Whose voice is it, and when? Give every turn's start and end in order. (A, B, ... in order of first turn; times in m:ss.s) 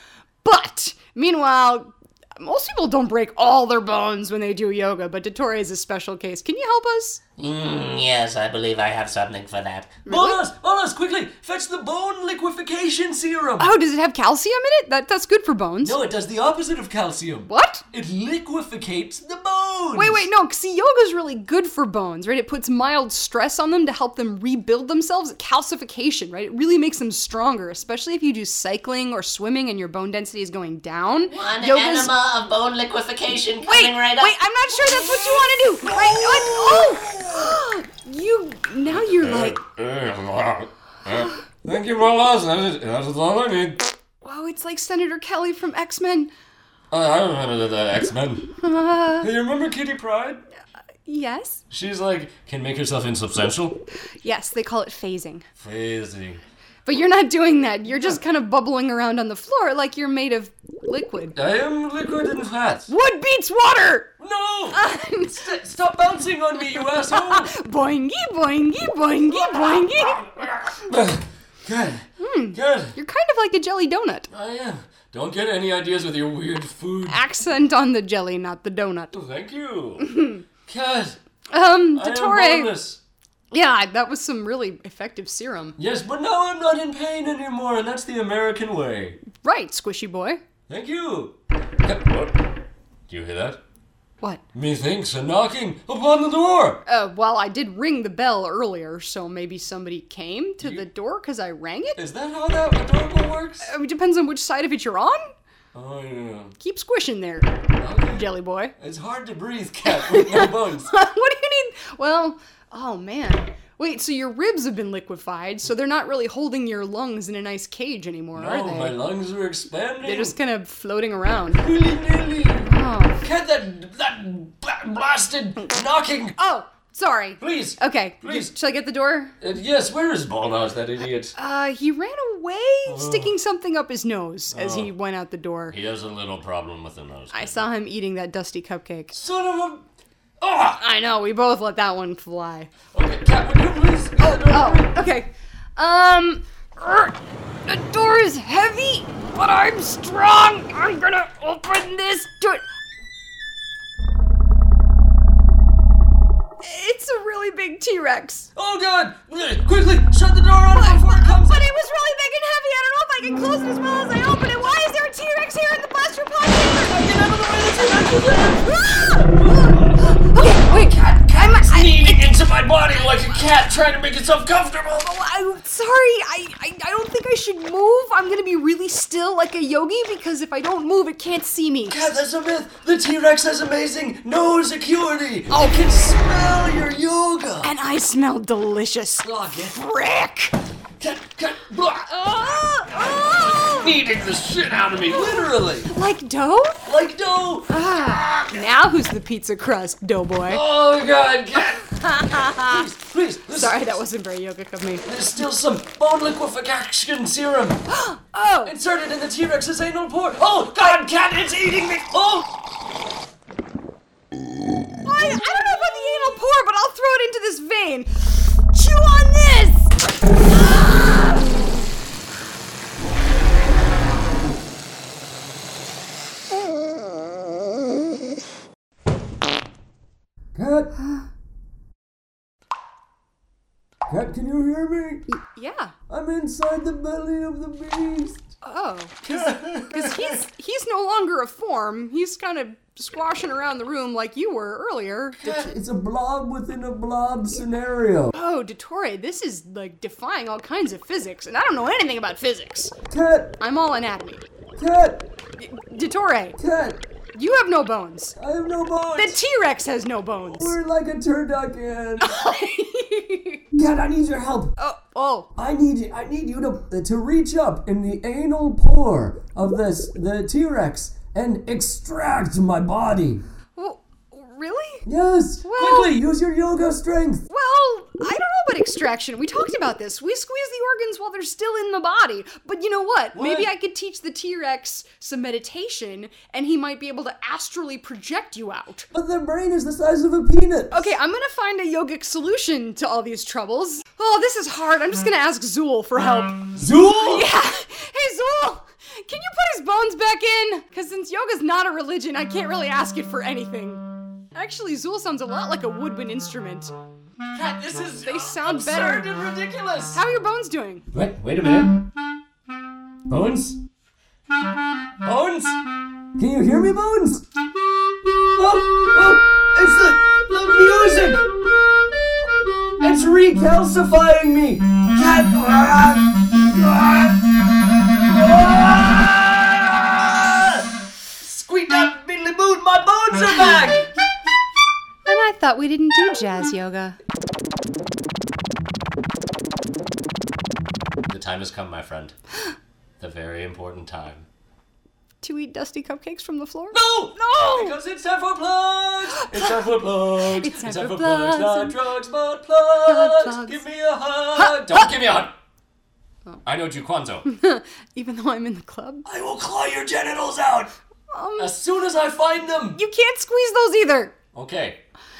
0:00.4-0:07.2 A
0:07.4-0:10.0 B
0:10.0-0:10.4 A
0:10.0-0:13.7 C
0:13.6-0:16.0 A
0:15.8-0:20.3 C
0:17.5-0:17.8 A
0:19.9-0:32.1 A
0:31.3-0:34.3 B
0:33.6-0:39.6 A
0:34.8-0:37.6 C
0:38.9-0:43.8 C
0:44.2-0:46.3 A
0:46.9-0:48.4 C
0:48.6-0:49.3 A
0:49.2-0:50.4 C
0:51.0-0:51.6 A
0:51.7-0:53.8 C
0:54.2-0:55.4 A
0:55.6-0:56.4 C
0:56.8-1:01.4 A
1:01.4-1:02.9 C
1:02.9-1:04.2 A
1:04.2-1:07.5 C
1:04.7-1:05.5 A
1:06.8-1:10.3 A
1:09.5-1:12.9 C
1:12.2-1:14.3 A
1:14.3-1:17.2 C
1:17.0-1:19.1 A
1:19.1-1:20.1 C
1:20.0-1:20.4 A
1:20.7-1:21.2 C
1:21.5-1:22.7 A
1:21.9-1:23.0 C
1:23.5-1:25.8 A
1:25.8-1:29.2 C
1:29.4-1:30.4 A
1:30.7-1:32.4 C
1:33.1-1:33.6 C
1:34.5-1:36.8 C
1:36.8-1:42.0 A
1:40.6-1:40.8 C
1:42.0-1:43.7 C
1:43.6-1:45.2 A
1:45.7-1:46.5 C
1:46.6-1:47.6 A
1:47.8-1:48.2 C
1:48.1-1:48.7 A
1:48.8-1:50.9 C
1:49.9-1:59.0 A
1:58.3-2:00.3 C
2:00.0-2:01.6 A
2:01.6-2:06.4 C
2:02.6-2:03.2 A
2:06.4-2:09.4 A
2:07.4-2:08.5 C
2:09.4-2:11.3 C
2:11.4-2:15.8 A
2:12.8-2:13.3 C
2:14.5-2:14.9 C
2:15.7-2:17.6 C
2:17.3-2:19.1 A
2:19.1-2:19.8 C
2:20.4-2:20.8 C
2:20.8-2:22.7 A
2:22.9-2:24.9 C
2:24.2-2:32.6 A
2:36.6-2:38.5 A
2:38.6-2:41.7 C
2:40.7-2:47.1 A
2:46.8-2:55.2 C
2:48.6-2:49.3 A
2:49.9-2:52.3 A
2:55.0-3:02.0 A
3:01.9-3:07.7 C
3:05.5-3:05.9 A
3:07.6-3:10.6 A
3:09.2-3:09.8 C
3:11.0-3:15.9 C
3:12.1-3:13.9 A
3:15.1-3:16.8 A
3:16.8-3:18.6 C
3:17.7-3:20.6 A
3:20.5-3:24.0 C
3:21.5-3:22.9 A
3:23.5-3:25.0 A
3:25.0-3:27.8 C
3:27.9-3:28.7 A
3:28.6-3:32.5 C
3:35.0-3:40.0 A
3:50.5-3:50.9 C
3:51.0-3:51.3 A
3:54.1-3:55.3 C
3:55.3-3:55.9 A
3:56.1-3:58.4 C
3:58.6-4:05.7 A
3:59.2-4:00.4 C
4:05.4-4:08.3 C
4:08.3-4:12.9 A
4:13.1-4:13.6 C
4:13.6-4:14.4 A
4:14.8-4:15.2 C
4:15.6-4:16.6 A
4:16.6-4:17.0 C
4:17.3-4:18.4 A
4:18.4-4:19.4 C
4:19.2-4:20.8 A
4:20.5-4:22.5 C
4:22.2-4:23.6 A
4:23.7-4:24.7 C
4:24.8-4:25.5 A
4:25.6-4:33.4 C
4:33.8-4:35.0 A
4:35.0-4:37.4 C
4:35.6-4:36.2 A
4:37.5-4:49.1 A
4:43.3-4:43.7 C
4:49.1-4:51.1 C
4:50.9-5:06.9 A
4:56.8-4:57.5 C
5:07.5-5:10.2 C
5:08.2-5:09.3 A
5:10.1-5:11.0 A
5:11.1-5:12.0 C
5:13.3-5:13.8 C
5:15.2-5:15.8 C
5:16.4-5:17.4 C
5:18.5-5:21.5 C
5:23.0-5:27.5 C
5:28.2-5:34.1 C
5:35.2-5:37.2 A
5:41.3-5:42.3 C
5:43.2-5:44.4 C
5:45.4-5:48.0 A
5:46.9-5:55.5 C
5:49.3-5:49.7 A
5:50.4-5:52.0 A
5:53.0-5:53.8 A
5:54.5-5:55.1 A
5:56.6-5:57.4 C
5:57.4-5:59.2 A
5:59.2-6:00.9 C
6:01.3-6:01.7 A
6:01.6-6:03.0 C
6:02.9-6:04.3 A
6:04.5-6:05.0 C